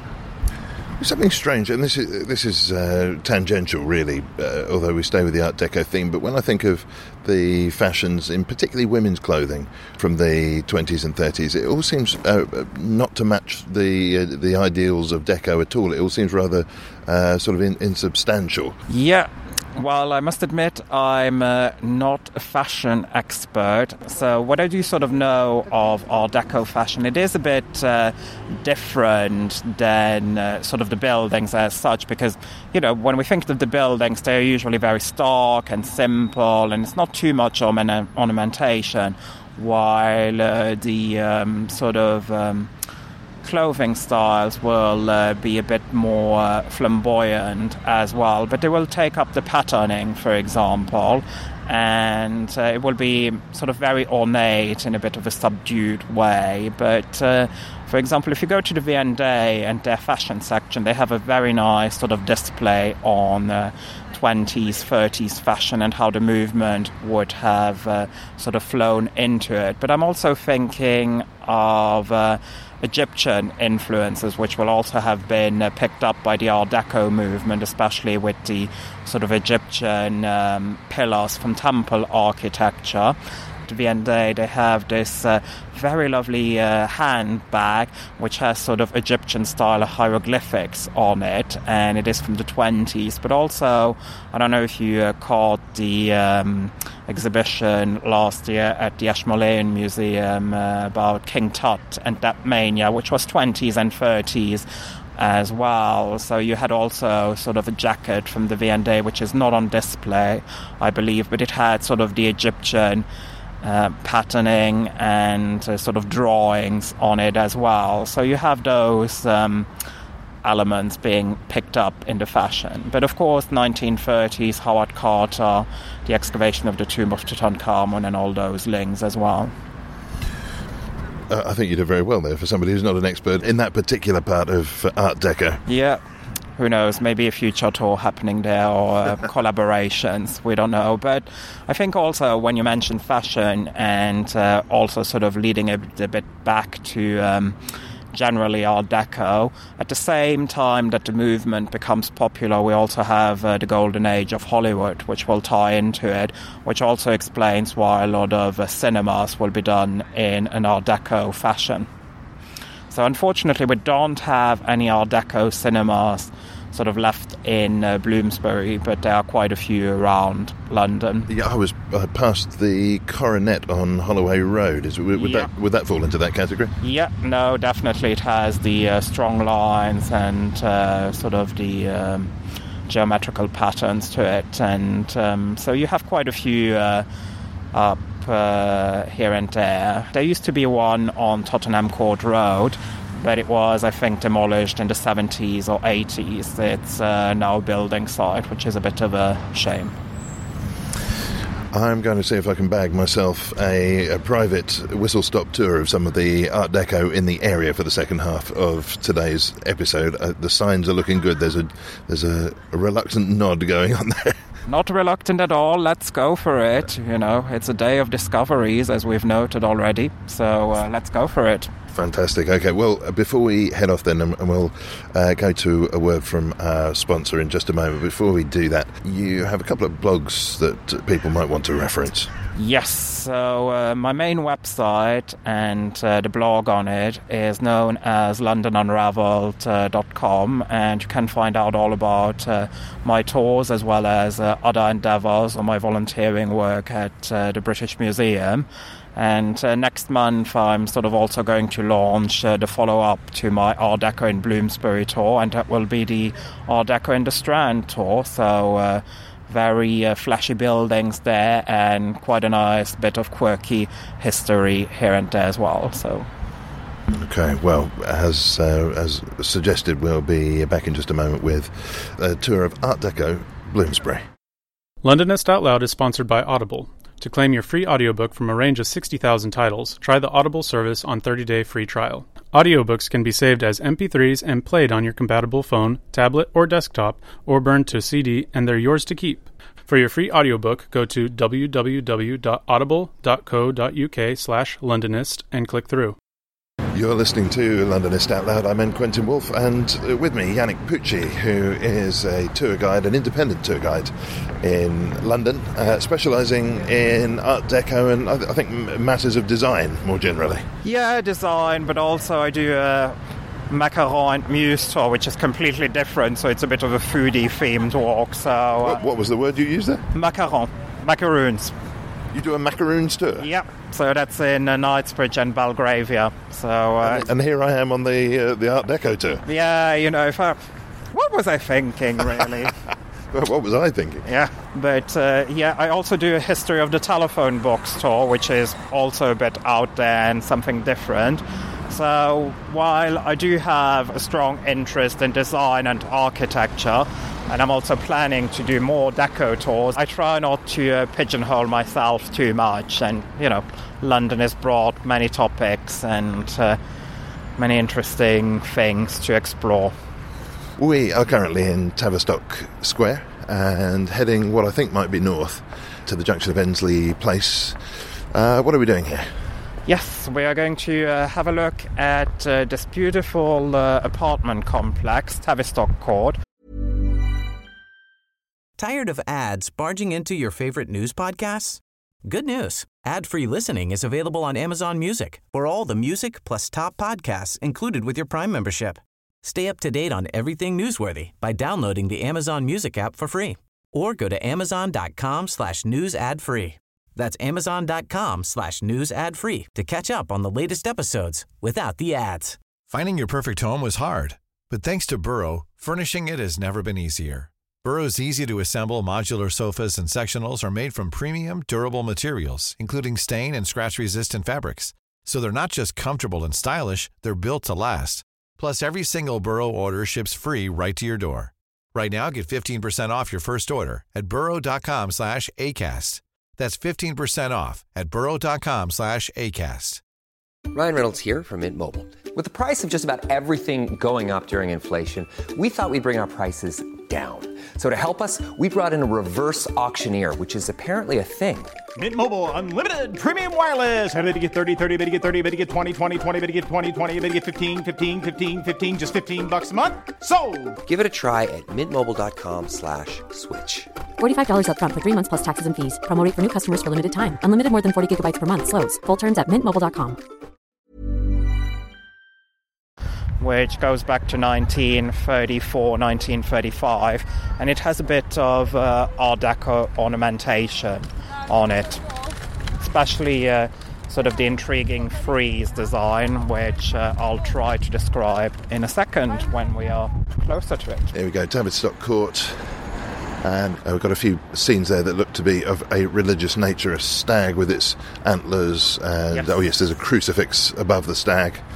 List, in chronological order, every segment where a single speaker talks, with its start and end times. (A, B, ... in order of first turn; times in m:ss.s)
0:01.0-0:18.8 A
0:18.9-0:42.7 B
0:43.4-1:23.1 B
1:23.7-1:44.6 B
1:45.2-1:53.0 B
1:53.6-1:59.7 B
2:00.4-2:09.5 B
2:11.3-2:15.6 A
2:15.7-2:16.0 B
2:16.6-2:27.6 B
2:28.1-2:41.9 B
2:42.9-2:51.3 B
2:51.3-2:56.7 A
2:55.2-2:55.5 B
2:56.8-3:02.3 B
3:02.9-3:07.0 B
3:07.7-3:19.9 B
3:21.7-3:34.4 A
3:34.7-3:41.7 B
3:41.9-3:52.3 A
3:52.5-4:26.3 B
4:27.1-4:34.2 A
4:35.0-4:56.2 C
4:56.9-5:10.6 A
5:10.8-5:13.2 B
5:13.7-5:19.0 B
5:18.8-5:20.1 A
5:20.1-5:21.7 B
5:22.3-5:23.5 A
5:23.4-5:27.3 B
5:27.0-5:29.4 A
5:29.4-5:30.6 B
5:31.1-5:32.7 B
5:33.3-5:34.2 A
5:34.2-5:56.8 B
5:57.6-5:59.9 B
6:00.8-6:07.8 A
6:08.3-6:09.3 A
6:09.9-6:16.4 B
6:18.8-6:42.6 D
6:42.9-7:10.0 E
7:10.7-7:21.8 F
7:22.0-7:30.8 G
7:30.8-7:33.9 F
7:34.2-7:40.2 H
7:43.4-7:52.0 B
7:52.8-8:01.1 B
8:01.1-8:02.8 A
8:03.4-8:11.6 A